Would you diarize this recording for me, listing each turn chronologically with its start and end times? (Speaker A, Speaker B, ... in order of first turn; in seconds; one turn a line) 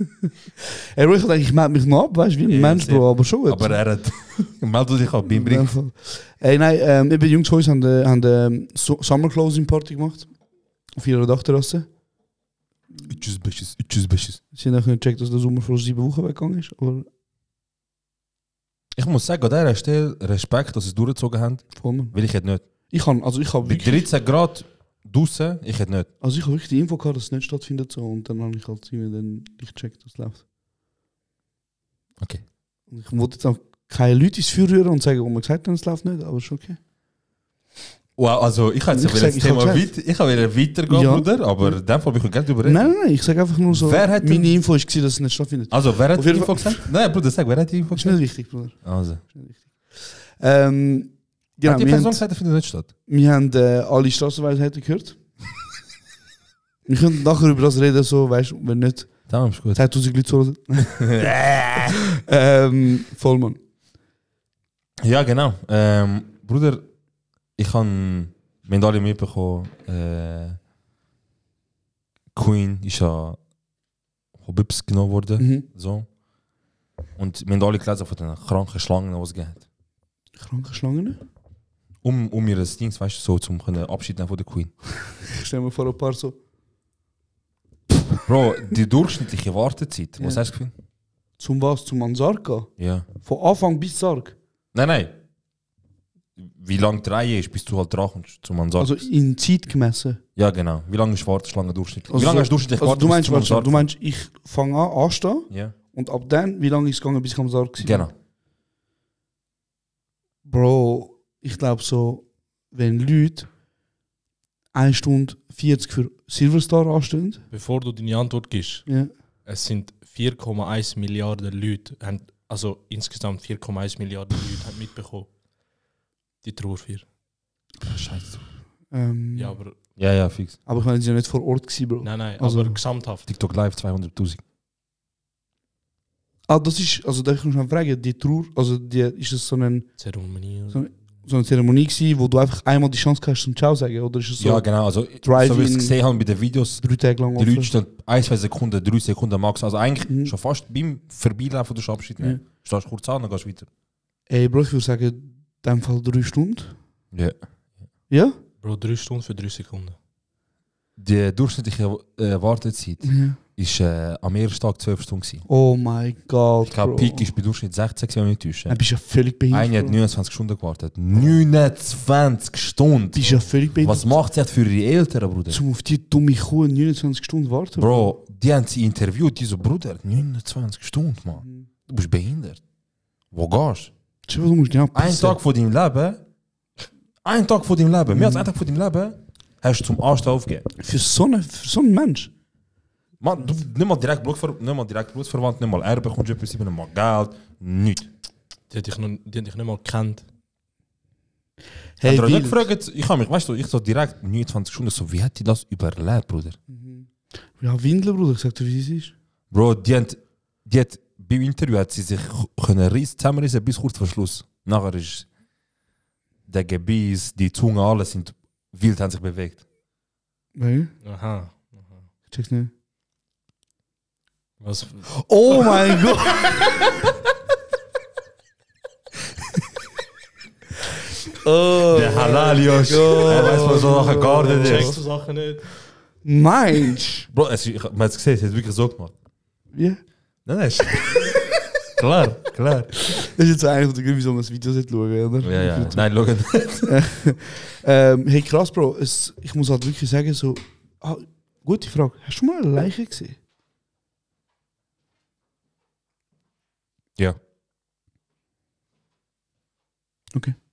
Speaker A: 0.9-3.8
Speaker B: 2.5-5.7
Speaker A: 5.3-10.3
Speaker A: 11.0-11.8
Speaker B: 13.0-14.4
Speaker A: 14.5-17.1
Speaker B: 18.9-22.6
Speaker A: 21.8-22.1
Speaker A: 22.9-24.1
Speaker B: 23.6-26.1
Speaker A: 26.2-30.4
Speaker A: 32.9-36.8
Speaker B: 38.2-42.9
Speaker A: 38.9-39.9
Speaker A: 40.9-41.8
Speaker A: 42.6-46.9
Speaker B: 43.7-44.6
Speaker B: 45.7-48.2
Speaker A: 47.9-52.2
Speaker B: 48.7-49.2
Speaker B: 51.6-52.9
Speaker A: 53.1-55.2
Speaker A: 56.9-59.1
Speaker B: 59.3-59.8
Speaker A: 59.7-63.6
Speaker B: 61.0-61.9
Speaker B: 65.0-66.8
Speaker B: 67.6-70.6
Speaker B: 72.3-73.4
Speaker B: 74.4-76.1
Speaker A: 75.4-75.7
Speaker B: 77.2-79.6
Speaker A: 80.4-81.2
Speaker B: 82.0-84.7
Speaker A: 85.2-86.3
Speaker B: 88.2-90.7
Speaker A: 91.4-92.7
Speaker B: 92.8-93.1
Speaker A: 93.2-94.3
Speaker B: 94.7-95.2
Speaker B: 96.4-99.0
Speaker A: 98.8-100.2
Speaker B: 100.3-103.9
Speaker A: 102.1-108.1
Speaker B: 105.5-105.7
Speaker B: 107.8-108.1
Speaker A: 110.4-113.5
Speaker A: 114.7-117.4
Speaker C: 117.5-118.9
Speaker C: 119.5-125.3
Speaker C: 126.4-127.0
Speaker B: 127.9-128.4
Speaker A: 128.9-129.6
Speaker C: 129.3-129.8
Speaker B: 130.0-130.6
Speaker A: 130.7-132.8
Speaker C: 132.0-133.2
Speaker B: 133.3-134.4
Speaker A: 136.5-139.9
Speaker C: 140.0-140.8
Speaker A: 140.7-144.7
Speaker B: 144.4-146.8
Speaker A: 145.2-146.0
Speaker A: 146.8-147.7
Speaker B: 147.3-153.7
Speaker A: 150.1-150.3
Speaker A: 154.3-156.8
Speaker A: 158.1-158.4
Speaker C: 158.6-160.0
Speaker B: 161.0-165.4
Speaker A: 163.0-163.4
Speaker A: 165.5-167.3
Speaker B: 166.6-168.8
Speaker A: 168.7-170.0
Speaker B: 169.5-175.6
Speaker A: 173.1-174.1
Speaker A: 175.5-178.1
Speaker B: 177.8-182.6
Speaker A: 181.4-181.7
Speaker B: 183.3-183.9
Speaker A: 184.3-185.4
Speaker B: 184.9-186.2
Speaker B: 187.2-190.7
Speaker A: 188.1-188.5
Speaker A: 190.8-192.3
Speaker B: 193.2-198.1
Speaker C: 198.7-200.2
Speaker A: 202.0-202.7
Speaker B: 202.0-206.6
Speaker A: 206.7-209.1
Speaker B: 209.5-215.3
Speaker B: 216.5-219.6
Speaker A: 220.6-220.9
Speaker C: 221.0-222.1
Speaker A: 222.3-222.7
Speaker C: 224.6-225.7
Speaker A: 225.2-226.6
Speaker A: 231.3-235.0
Speaker B: 231.9-234.9
Speaker C: 233.5-233.8
Speaker C: 234.4-235.7
Speaker A: 236.2-237.3
Speaker B: 237.3-239.1
Speaker A: 239.7-240.0
Speaker B: 240.4-242.9
Speaker A: 243.1-246.0
Speaker B: 245.4-246.9
Speaker A: 246.8-253.4